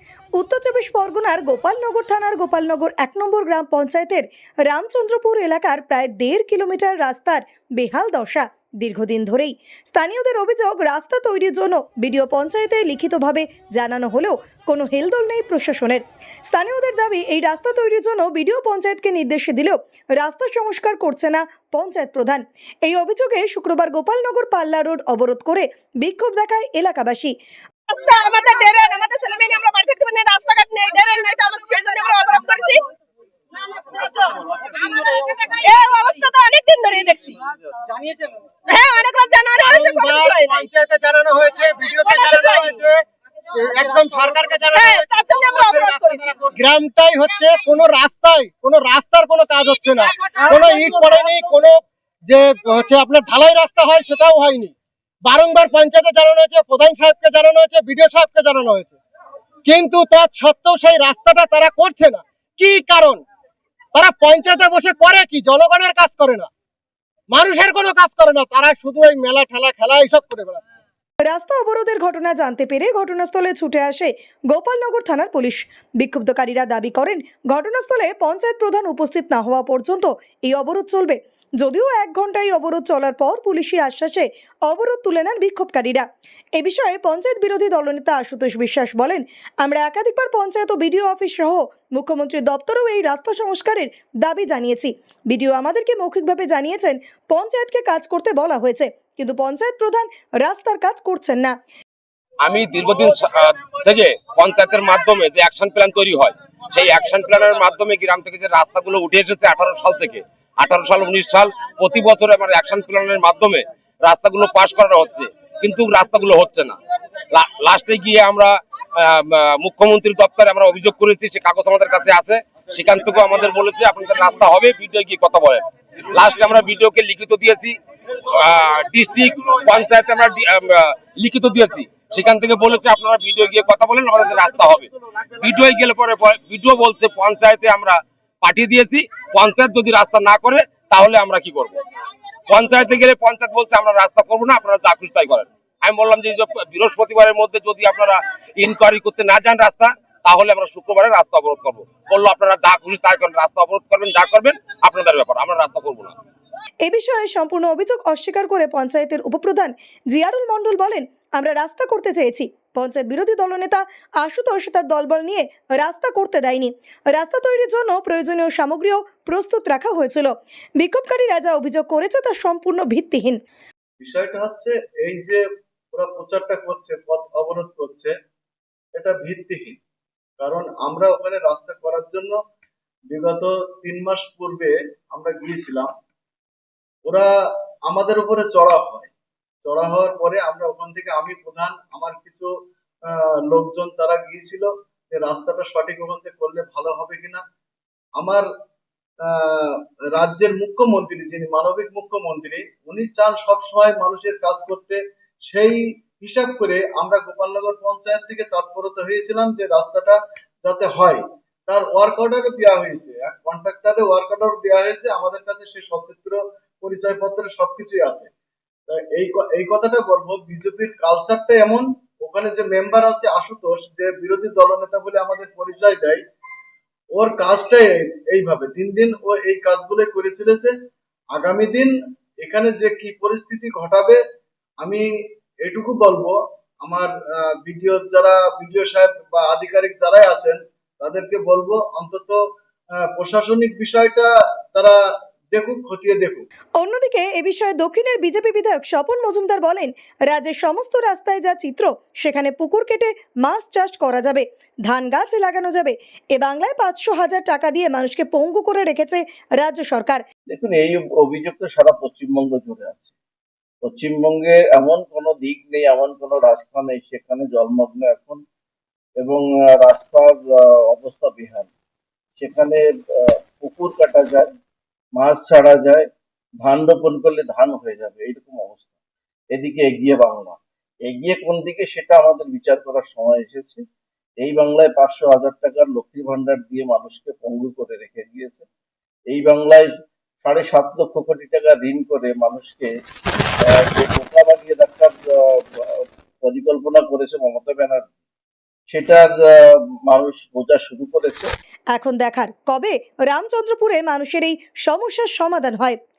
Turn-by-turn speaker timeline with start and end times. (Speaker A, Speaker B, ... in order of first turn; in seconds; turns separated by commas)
Speaker A: 0.3-27.3, Speaker B: 27.9-32.8, Speaker B: 33.9-37.4, Speaker B: 38.6-40.7, Speaker C: 39.6-59.0, Speaker B: 42.0-42.7, Speaker B: 44.7-46.3, Speaker B: 50.5-51.0, Speaker C: 59.7-63.2, Speaker C: 64.0-66.5, Speaker C: 67.3-70.6, Speaker A: 71.2-86.0, Speaker A: 86.6-101.5, Speaker D: 102.4-116.8, Speaker D: 117.3-127.8, Speaker D: 128.3-141.8, Speaker D: 142.5-156.2, Speaker A: 156.8-173.4, Speaker E: 174.0-178.2, Speaker E: 178.9-179.8, Speaker E: 180.4-182.4, Speaker E: 183.1-185.9, Speaker E: 187.0-187.3, Speaker E: 187.8-189.1, Speaker E: 189.6-192.5, Speaker E: 193.1-197.4, Speaker E: 198.2-198.5, Speaker E: 199.2-218.3, Speaker E: 218.9-226.2, Speaker E: 227.1-230.7, Speaker E: 231.3-234.2, Speaker E: 234.8-235.1, Speaker E: 235.6-242.4, Speaker E: 242.9-245.0, Speaker E: 245.5-246.4, Speaker A: 246.8-260.2, Speaker F: 260.5-263.1, Speaker F: 263.8-268.4, Speaker F: 269.2-271.7, Speaker F: 272.4-274.5, Speaker F: 275.2-276.1, Speaker F: 276.6-278.9, Speaker F: 279.5-283.8, Speaker F: 284.4-288.6, Speaker F: 289.3-289.9, Speaker F: 290.4-292.9, Speaker F: 293.6-298.1, Speaker F: 298.9-299.4, Speaker F: 300.1-301.5, Speaker A: 301.9-306.0